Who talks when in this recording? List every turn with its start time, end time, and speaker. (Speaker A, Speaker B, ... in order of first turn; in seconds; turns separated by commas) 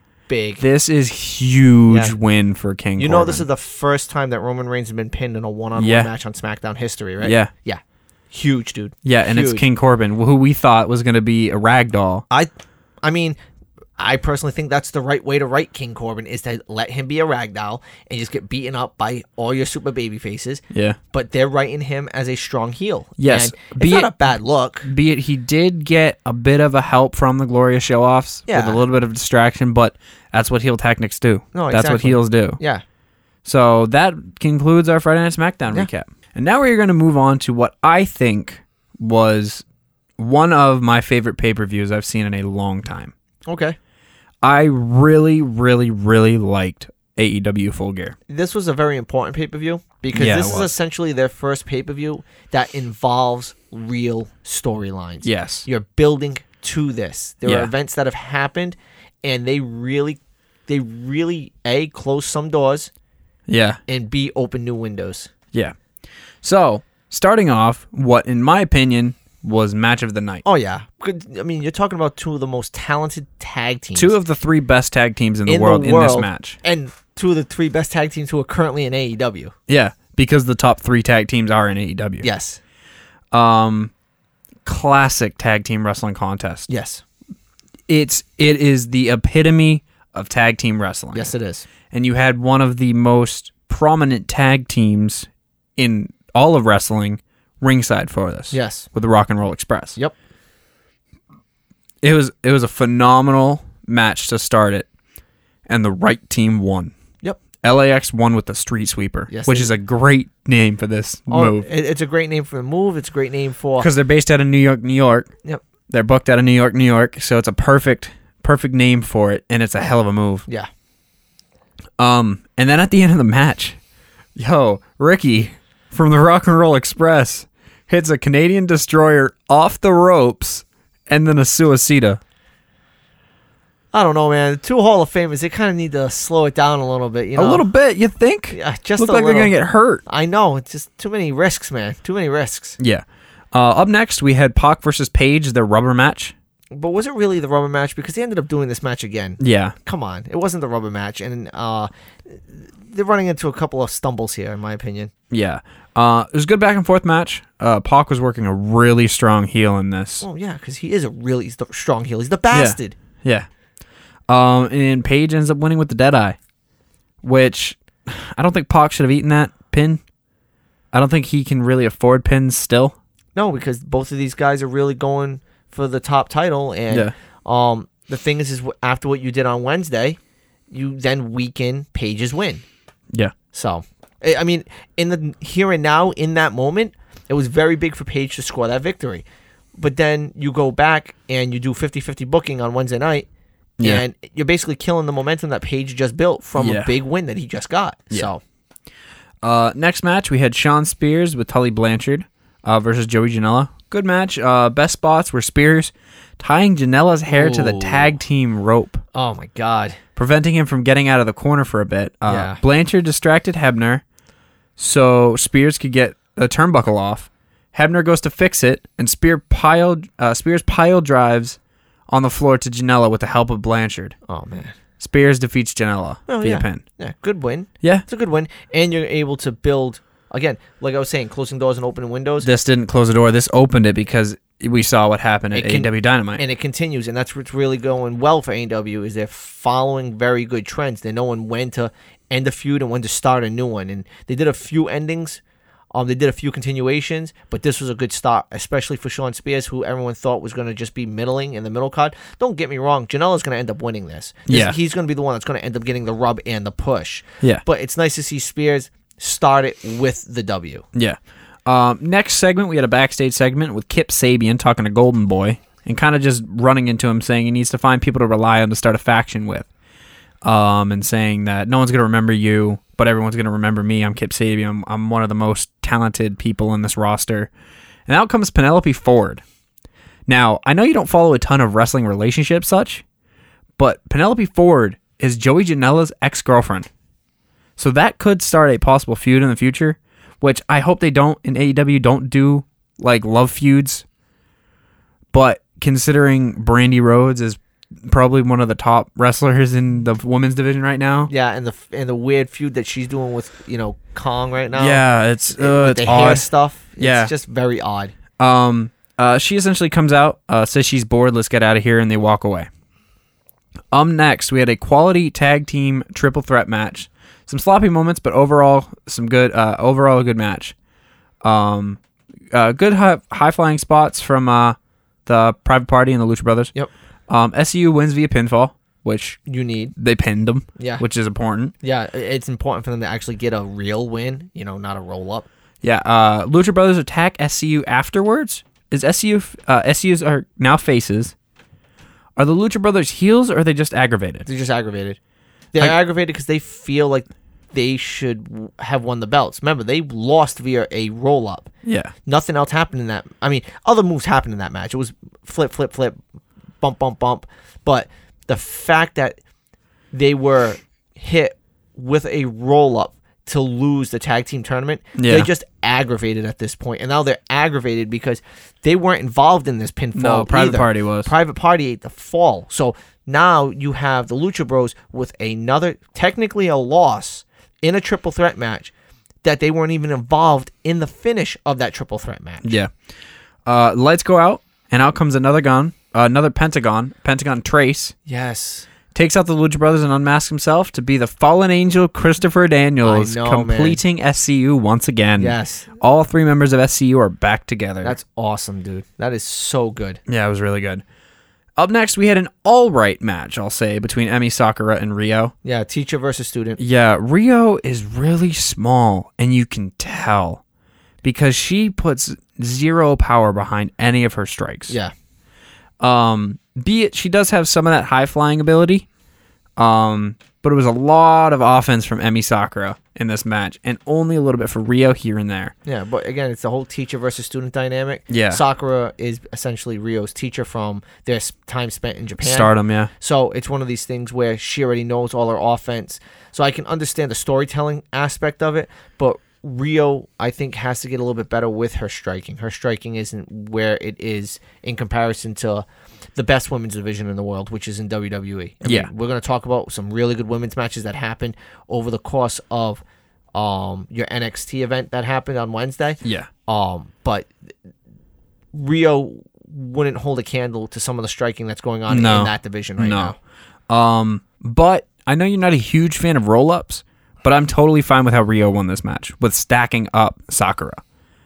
Speaker A: 0.3-0.6, Speaker B: 0.6-3.5, Speaker A: 1.9-2.1, Speaker A: 3.0-9.6, Speaker B: 5.8-6.1, Speaker B: 7.2-7.5, Speaker B: 9.1-12.2, Speaker A: 13.0-13.4, Speaker A: 14.0-24.9, Speaker B: 20.7-21.0, Speaker B: 23.2-32.6, Speaker A: 28.5-28.8, Speaker A: 31.5-32.8, Speaker B: 33.4-39.6, Speaker B: 40.2-43.1, Speaker A: 43.5-43.8, Speaker B: 44.4-48.2, Speaker A: 48.3-62.9, Speaker B: 50.1-50.7, Speaker B: 55.2-55.7, Speaker B: 57.5-57.7, Speaker B: 63.5-63.8, Speaker A: 63.9-65.3, Speaker B: 66.4-70.4, Speaker A: 70.5-74.1, Speaker B: 74.0-76.6, Speaker A: 75.5-79.5, Speaker B: 79.7-82.3, Speaker A: 82.2-82.6, Speaker B: 83.3-83.9, Speaker B: 84.7-86.7, Speaker A: 86.7-87.0, Speaker B: 87.9-91.3, Speaker A: 91.1-91.7, Speaker B: 91.9-100.0, Speaker A: 98.5-98.9, Speaker B: 102.0-104.9, Speaker B: 105.7-106.9, Speaker B: 107.6-111.7, Speaker A: 109.3-109.7, Speaker A: 111.3-113.9, Speaker B: 113.8-115.3, Speaker B: 115.9-120.5, Speaker B: 122.0-123.8, Speaker B: 124.4-132.2, Speaker A: 133.9-137.7, Speaker B: 137.3-140.0, Speaker A: 138.5-139.5, Speaker A: 140.1-142.8, Speaker B: 142.8-146.3, Speaker A: 146.7-155.1, Speaker B: 149.4-149.8, Speaker B: 155.3-160.3, Speaker A: 160.2-163.0, Speaker B: 162.5-163.5, Speaker B: 164.3-166.4, Speaker B: 167.2-170.0, Speaker B: 170.9-173.0, Speaker A: 173.3-180.2, Speaker A: 180.7-182.6, Speaker A: 183.5-189.2, Speaker A: 189.8-193.3, Speaker A: 193.8-198.4, Speaker B: 196.6-196.9, Speaker B: 199.4-209.0, Speaker A: 207.3-208.2, Speaker A: 209.1-210.0, Speaker B: 210.2-214.0, Speaker A: 212.3-212.6, Speaker B: 214.8-221.6, Speaker B: 222.1-224.2, Speaker A: 224.3-224.8, Speaker B: 225.0-226.8, Speaker A: 226.3-232.5, Speaker B: 232.4-236.4, Speaker A: 235.5-245.4, Speaker A: 245.9-260.9, Speaker B: 254.5-254.8, Speaker B: 260.9-269.7, Speaker B: 270.4-277.5, Speaker B: 278.1-279.4, Speaker B: 280.3-283.0, Speaker B: 283.8-286.9, Speaker B: 287.8-294.1, Speaker B: 295.3-301.3, Speaker A: 301.3-308.1, Speaker B: 304.8-306.5, Speaker B: 307.0-307.3, Speaker B: 308.4-312.7, Speaker B: 313.9-320.8, Speaker B: 321.4-322.0, Speaker B: 322.5-326.7, Speaker B: 327.3-329.4, Speaker A: 329.5-329.9, Speaker B: 330.0-331.7, Speaker A: 330.8-331.0, Speaker A: 331.8-335.5, Speaker B: 335.8-341.3, Speaker B: 342.4-344.5, Speaker A: 344.5-345.2, Speaker A: 345.7-351.7, Speaker B: 351.9-352.1, Speaker A: 352.3-356.2, Speaker A: 356.8-359.4, Speaker A: 360.1-378.9, Speaker B: 365.2-365.5, Speaker B: 370.1-371.3, Speaker A: 379.4-382.8, Speaker B: 382.6-382.9, Speaker B: 383.7-388.1, Speaker A: 388.3-388.9, Speaker B: 389.1-398.2, Speaker A: 393.0-394.0, Speaker A: 395.4-395.9, Speaker A: 398.0-400.2, Speaker B: 400.3-401.0, Speaker B: 401.8-405.5, Speaker A: 405.6-406.8, Speaker B: 406.8-410.6, Speaker B: 411.2-415.0, Speaker B: 416.0-419.1, Speaker B: 419.8-425.7, Speaker A: 425.9-453.0, Speaker B: 428.3-428.6, Speaker B: 432.4-433.1, Speaker B: 448.9-449.1, Speaker A: 453.5-457.5, Speaker B: 456.2-456.5, Speaker A: 458.7-463.4, Speaker B: 462.1-463.3, Speaker B: 463.9-471.0